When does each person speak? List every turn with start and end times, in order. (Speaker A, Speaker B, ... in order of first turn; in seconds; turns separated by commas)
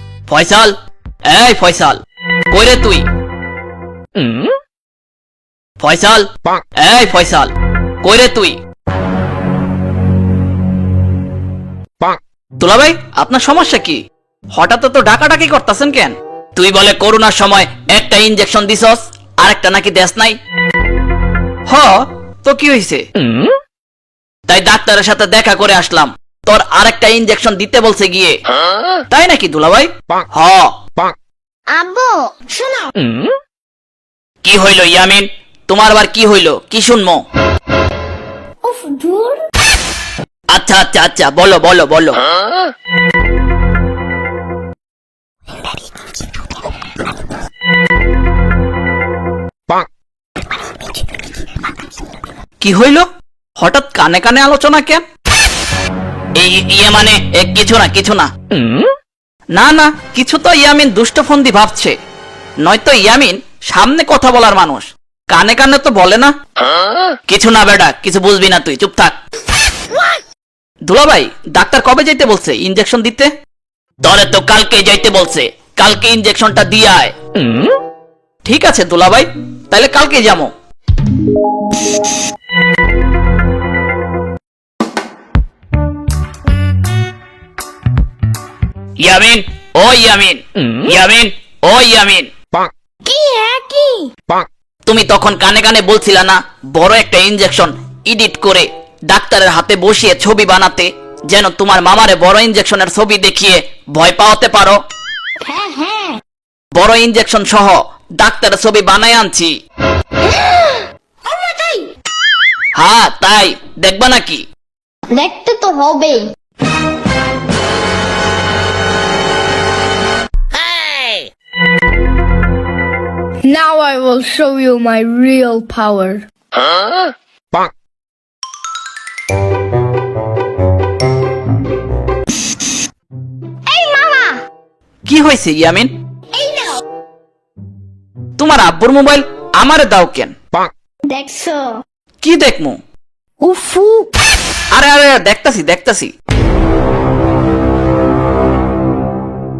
Speaker A: 0.3-0.7, Speaker A: 1.3-2.0, Speaker A: 2.5-3.0, Speaker A: 5.8-6.2, Speaker A: 6.8-7.5, Speaker A: 8.0-8.6, Speaker A: 12.6-14.0, Speaker A: 14.5-20.4, Speaker A: 21.7-23.0, Speaker A: 24.5-28.4, Speaker A: 29.1-30.7, Speaker B: 31.7-32.9, Speaker A: 34.4-37.2, Speaker B: 38.6-39.4, Speaker A: 40.5-42.2, Speaker A: 52.6-53.0, Speaker A: 53.6-55.0, Speaker A: 56.4-58.3, Speaker A: 59.6-62.0, Speaker A: 62.6-66.3, Speaker A: 67.3-69.2, Speaker A: 70.9-73.3, Speaker A: 74.0-77.1, Speaker A: 78.5-80.5, Speaker A: 89.0-92.3, Speaker B: 93.0-94.1, Speaker A: 94.8-104.8, Speaker B: 105.4-106.2, Speaker A: 106.7-109.5, Speaker B: 110.2-111.9, Speaker A: 112.8-114.4, Speaker B: 115.1-116.3, Speaker C: 123.5-126.2, Speaker B: 133.7-134.4, Speaker A: 135.1-135.9, Speaker B: 136.3-136.8, Speaker A: 138.4-140.3, Speaker B: 141.1-141.8, Speaker A: 142.2-142.8, Speaker B: 143.4-144.1, Speaker A: 144.7-146.1